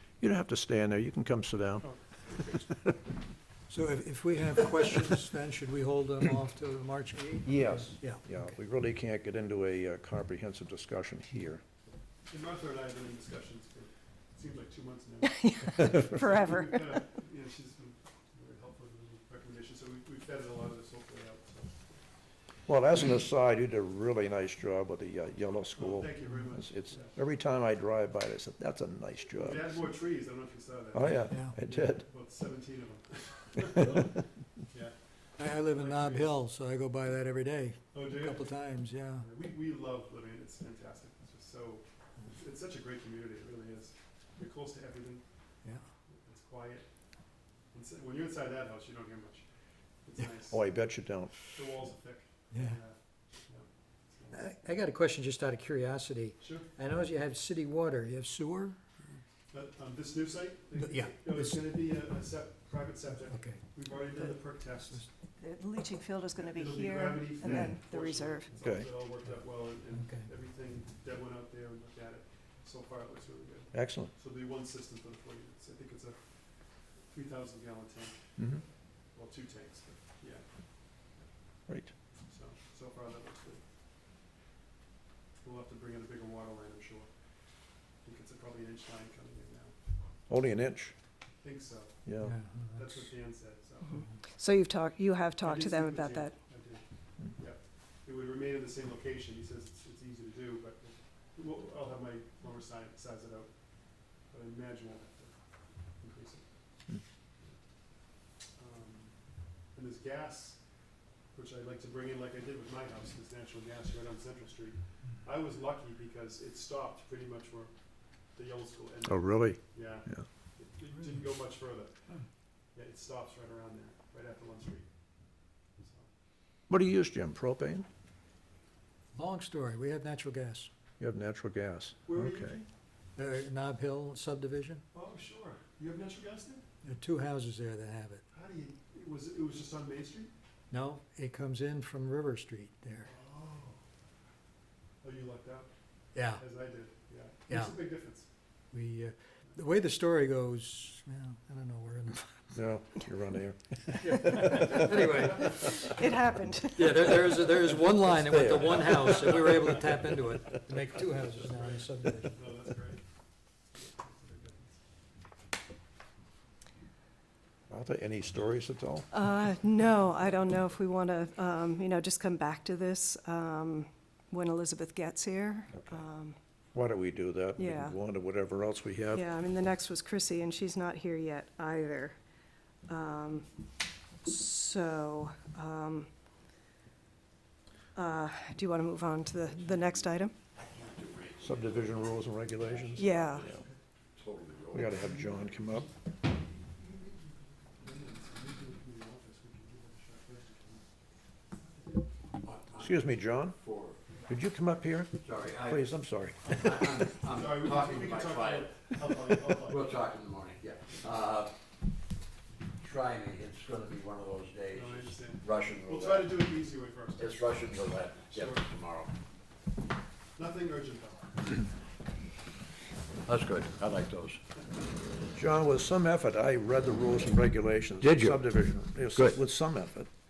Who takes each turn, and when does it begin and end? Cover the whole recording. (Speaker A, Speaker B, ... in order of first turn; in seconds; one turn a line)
Speaker A: 0.2-2.7
Speaker B: 3.7-8.5
Speaker A: 7.5-11.6
Speaker C: 12.3-22.0
Speaker D: 15.4-16.8
Speaker A: 22.7-29.6
Speaker C: 25.7-27.1
Speaker C: 29.4-34.2
Speaker A: 30.9-32.0
Speaker C: 34.7-34.9
Speaker B: 35.4-39.3
Speaker C: 35.6-36.4
Speaker C: 37.9-38.4
Speaker C: 39.2-45.2
Speaker C: 46.1-46.9
Speaker C: 47.7-49.4
Speaker C: 50.0-50.6
Speaker A: 50.5-51.4
Speaker C: 51.5-54.4
Speaker B: 52.5-52.8
Speaker B: 54.3-58.8
Speaker C: 56.4-56.7
Speaker C: 59.5-65.1
Speaker B: 60.8-61.6
Speaker B: 63.3-63.8
Speaker D: 65.4-68.5
Speaker C: 66.5-76.2
Speaker A: 68.6-68.9
Speaker B: 69.9-70.3
Speaker A: 73.7-74.1
Speaker C: 77.1-78.2
Speaker C: 79.1-80.4
Speaker C: 82.3-83.6
Speaker C: 85.4-87.1
Speaker C: 88.0-89.7
Speaker A: 90.3-90.9
Speaker C: 91.4-92.0
Speaker A: 92.0-92.3
Speaker B: 92.2-92.9
Speaker C: 92.7-94.0
Speaker D: 93.9-96.3
Speaker C: 95.4-103.5
Speaker C: 104.2-105.4
Speaker C: 106.0-106.5
Speaker C: 108.5-109.2
Speaker C: 109.7-110.6
Speaker C: 111.3-117.7
Speaker C: 118.3-121.9
Speaker A: 119.1-119.6
Speaker C: 122.7-124.9
Speaker C: 125.8-126.1
Speaker A: 126.7-127.9
Speaker B: 129.1-130.7
Speaker A: 131.0-132.6
Speaker C: 132.1-132.6
Speaker B: 133.2-134.8
Speaker C: 134.9-136.6
Speaker B: 136.8-138.2
Speaker C: 138.3-140.3
Speaker B: 140.7-143.1
Speaker C: 143.1-143.8
Speaker C: 145.0-145.7
Speaker B: 146.1-146.4
Speaker C: 146.3-148.3
Speaker B: 147.5-147.8
Speaker B: 148.7-152.5
Speaker A: 152.5-154.8
Speaker B: 154.0-156.0
Speaker D: 155.8-157.5
Speaker B: 156.8-162.5
Speaker A: 158.2-159.3
Speaker C: 161.4-163.0
Speaker C: 163.7-164.8
Speaker A: 167.7-169.1
Speaker D: 169.1-176.4
Speaker A: 176.7-179.2
Speaker D: 177.6-177.9
Speaker D: 179.1-182.2
Speaker D: 182.9-183.5
Speaker D: 184.2-186.1
Speaker D: 187.9-190.3
Speaker E: 190.6-193.6
Speaker A: 191.4-193.5
Speaker D: 192.9-193.4
Speaker E: 194.2-195.1
Speaker A: 194.7-195.9
Speaker C: 196.7-200.8
Speaker C: 201.6-202.1
Speaker E: 202.4-204.0
Speaker A: 202.8-203.6
Speaker A: 204.3-206.8
Speaker E: 205.2-205.9
Speaker E: 206.4-209.0
Speaker C: 207.3-209.9
Speaker E: 209.5-211.5
Speaker E: 212.8-216.5
Speaker C: 214.7-217.6
Speaker E: 217.2-219.1
Speaker C: 218.3-218.7
Speaker C: 220.3-221.6
Speaker E: 223.2-224.4
Speaker A: 225.3-230.1
Speaker E: 228.0-228.4
Speaker E: 229.1-229.4